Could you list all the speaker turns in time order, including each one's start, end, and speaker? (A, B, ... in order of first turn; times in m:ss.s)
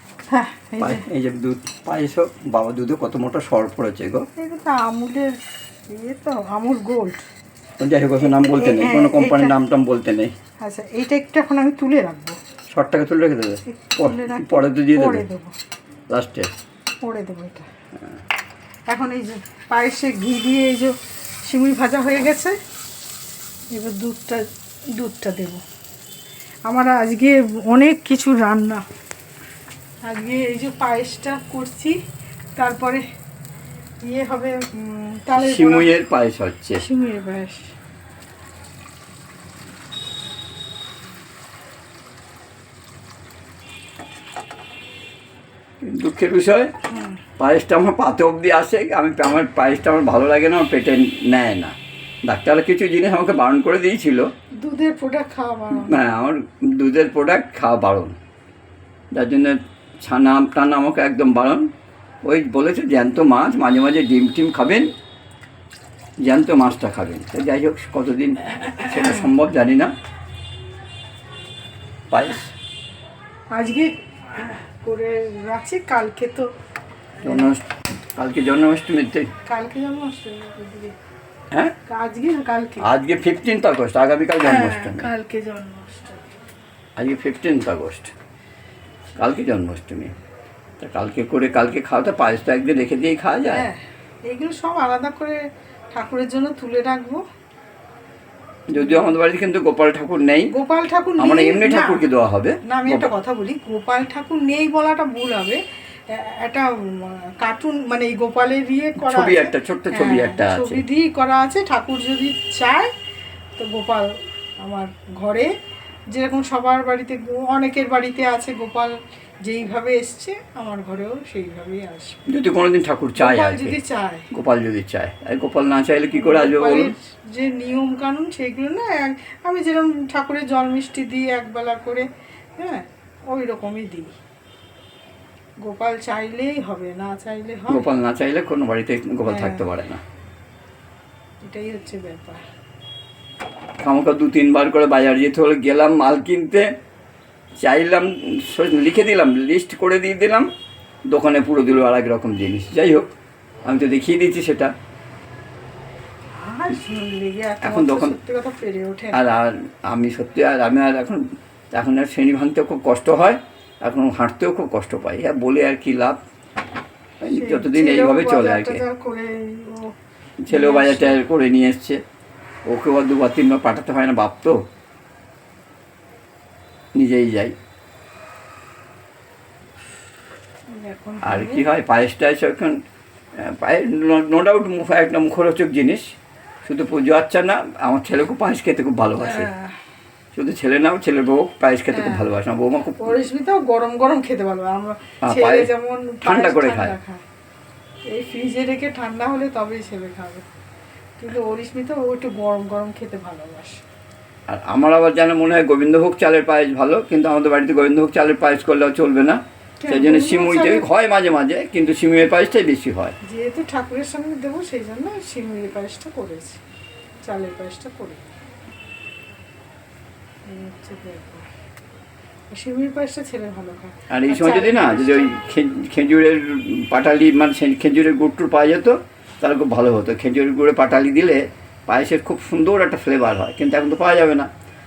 0:00.3-0:01.1 A
0:00.8-0:04.2 B
0:04.4-0:05.4 A
0:05.9-0:07.2 A
0:07.8-0:10.3 B
0:08.2-0:09.5 A
0:10.6-0:12.4 A
0:12.7-0:15.2 B
0:13.7-0:15.5 A
0:16.1-0:16.5 B
0:17.0-0:17.6 A
0:18.9-0:22.6 A
0:23.7-0:25.6 A
0:26.7-0:28.8 A
0:30.0-0:32.0 A
0:32.6-0:33.0 A
0:34.0-0:35.9 A
0:35.4-0:36.8 B
0:36.8-0:37.7 A
0:45.8-0:46.7 B
0:46.9-0:47.2 A
0:47.4-0:54.3 B
0:54.6-0:56.0 A
0:55.7-0:58.2 B
0:59.1-1:01.7 B
1:02.2-1:04.9 B
1:06.2-1:09.9 B
1:08.9-1:09.3 A
1:12.1-1:12.5 B
1:13.5-1:16.5 A
1:17.2-1:17.5 A
1:17.2-1:19.3 B
1:19.4-1:20.9 A
1:21.9-1:22.9 A
1:22.8-1:25.1 B
1:24.4-1:26.3 A
1:27.0-1:28.1 B
1:29.2-1:30.1 B
1:30.8-1:33.6 B
1:33.4-1:37.2 A
1:38.7-1:40.5 B
1:38.7-1:39.2 A
1:40.5-1:42.1 A
1:41.2-1:43.1 B
1:42.6-1:52.9 A
1:49.0-1:50.8 B
1:53.6-1:54.1 A
1:54.6-1:55.5 A
1:56.1-2:02.2 A
2:02.3-2:03.8 B
2:03.2-2:04.3 A
2:04.3-2:06.9 B
2:06.1-2:14.2 A
2:15.6-2:17.9 A
2:17.7-2:20.0 B
2:19.2-2:19.7 A
2:21.4-2:22.4 A
2:23.8-2:26.7 B
2:27.6-2:30.5 B
2:31.1-2:33.1 B
2:33.6-2:34.7 B
2:36.3-2:39.2 A
2:37.6-2:38.2 B
2:39.1-2:46.2 B
2:47.2-2:48.8 B
2:47.3-2:49.9 A
2:50.4-2:52.0 B
2:50.5-2:51.2 A
2:52.7-2:54.6 B
2:56.9-2:57.5 B
3:00.7-3:01.7 A
3:01.2-3:02.8 B
3:03.4-3:06.1 B
3:06.6-3:09.5 B
3:09.2-3:09.7 A
3:10.3-3:13.2 B
3:11.9-3:12.3 A
3:13.0-3:17.2 A
3:15.2-3:15.7 B
3:16.2-3:16.9 B
3:18.0-3:20.4 A
3:21.2-3:23.8 A
3:24.5-3:33.1 B
3:29.8-3:30.9 A
3:33.2-3:36.6 A
3:37.2-3:38.2 A
3:40.4-3:41.5 A
3:42.5-3:45.4 A
3:44.1-3:54.5 B